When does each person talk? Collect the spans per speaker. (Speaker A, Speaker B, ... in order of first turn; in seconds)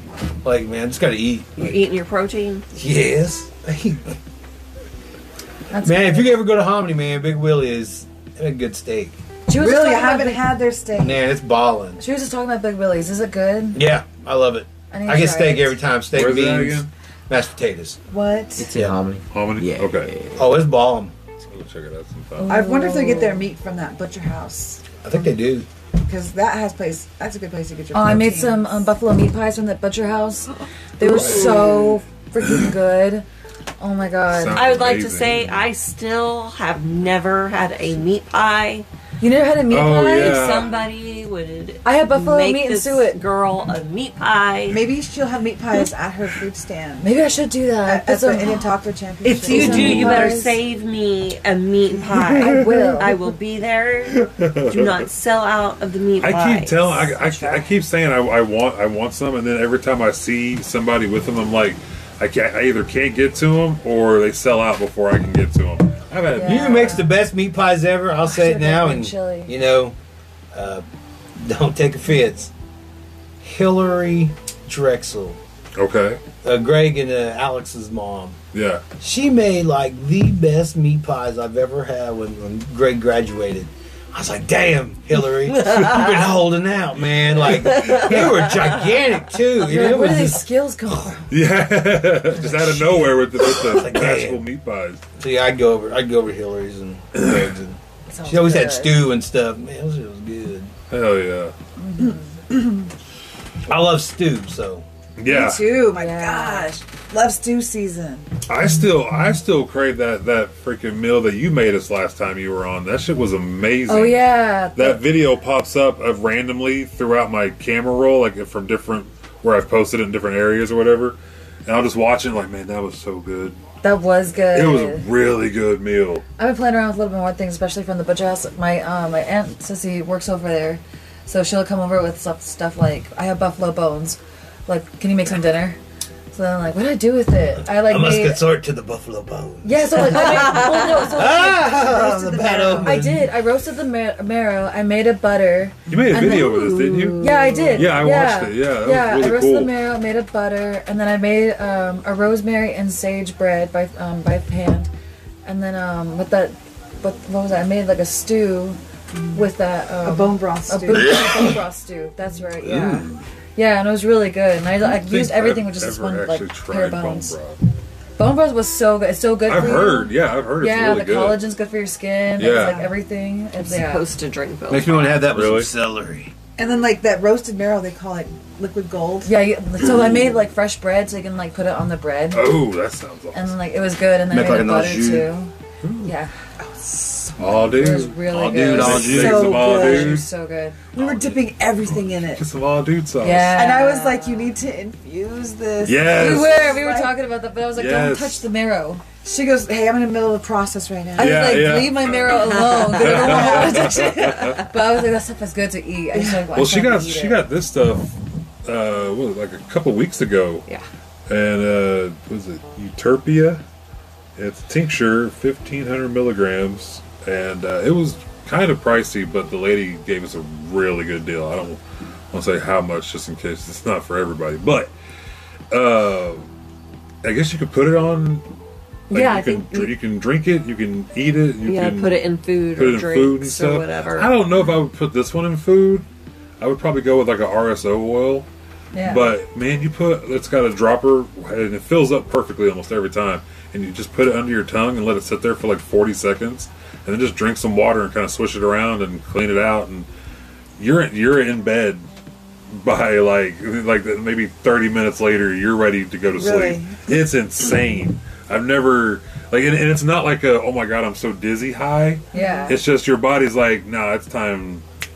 Speaker A: 0.4-1.7, 2.7-4.2, 5.8-9.2, 10.9-12.0, 13.8-18.0, 20.4-21.1, 25.0-25.7, 49.7-50.2, 66.4-70.0, 70.5-70.8, 71.4-72.5, 73.4-75.4, 76.4-78.4, 79.0-90.5, 93.4-94.4, 95.2-100.7, 103.7-104.8, 137.6-143.2, 174.7-176.3, 184.3-185.3, 188.3-189.5
Speaker B: 1.6-2.6, 31.1-31.8, 34.5-38.9, 40.1-44.9, 49.2-57.1, 87.7-88.7, 146.1-147.9, 173.6-175.2, 202.4-203.6, 229.1-229.9, 231.6-234.4
Speaker C: 5.7-6.4, 9.5-10.4, 12.0-13.8, 14.9-15.8, 22.4-23.5, 27.9-33.3, 33.8-34.6, 39.2-40.5, 41.9-43.2, 47.0-48.7, 49.5-50.6, 52.4-53.1, 66.3-67.1, 68.2-69.6, 89.6-91.3, 98.1-99.1, 101.8-102.3, 105.9-106.7, 113.9-115.0, 123.8-125.1, 126.4-135.8, 136.3-138.4, 139.6-141.7, 142.8-146.5, 147.2-154.9, 155.4-158.8, 159.3-167.4, 168.2-174.1, 179.2-182.6, 183.3-185.5, 186.0-186.3, 187.7-190.8, 193.2-194.6, 196.1-199.0, 201.2-207.4, 238.9-239.3, 262.3-262.8
Speaker D: 9.5-11.3, 18.1-18.7, 22.4-24.9, 26.0-28.8, 31.1-31.8, 44.7-47.1, 47.8-50.4, 57.2-57.6, 102.0-102.7, 105.2-108.3, 141.2-143.0, 159.2-159.4, 160.0-161.3, 172.4-172.9, 176.6-179.3, 186.6-187.8, 189.0-190.2, 190.9-192.5, 193.5-197.1, 199.2-201.7, 203.0-204.0, 206.1-206.5, 256.4-257.2, 262.3-262.8
Speaker E: 16.1-16.9, 19.3-20.1, 21.5-22.6, 31.1-31.5, 34.3-35.6, 39.7-40.8, 52.4-53.0, 54.1-55.1, 56.2-67.1, 75.8-76.2, 78.5-78.8, 91.3-95.0, 100.9-101.5, 105.2-105.8, 108.5-123.6, 124.5-126.2, 145.9-149.7, 162.8-163.1, 164.8-167.6, 169.5-171.4, 172.4-172.8, 175.2-175.7, 182.3-183.5, 185.8-186.1, 187.4-190.3, 190.9-193.7, 195.8-196.8, 197.7-198.4, 201.2-204.6, 206.5-208.1, 208.7-210.7, 211.3-213.6, 214.4-221.8, 222.3-224.9, 225.7-226.5, 227.2-228.4, 229.1-232.2, 232.8-236.1, 236.6-238.5, 239.0-250.1, 250.8-252.1, 252.7-264.8
Speaker F: 18.6-20.6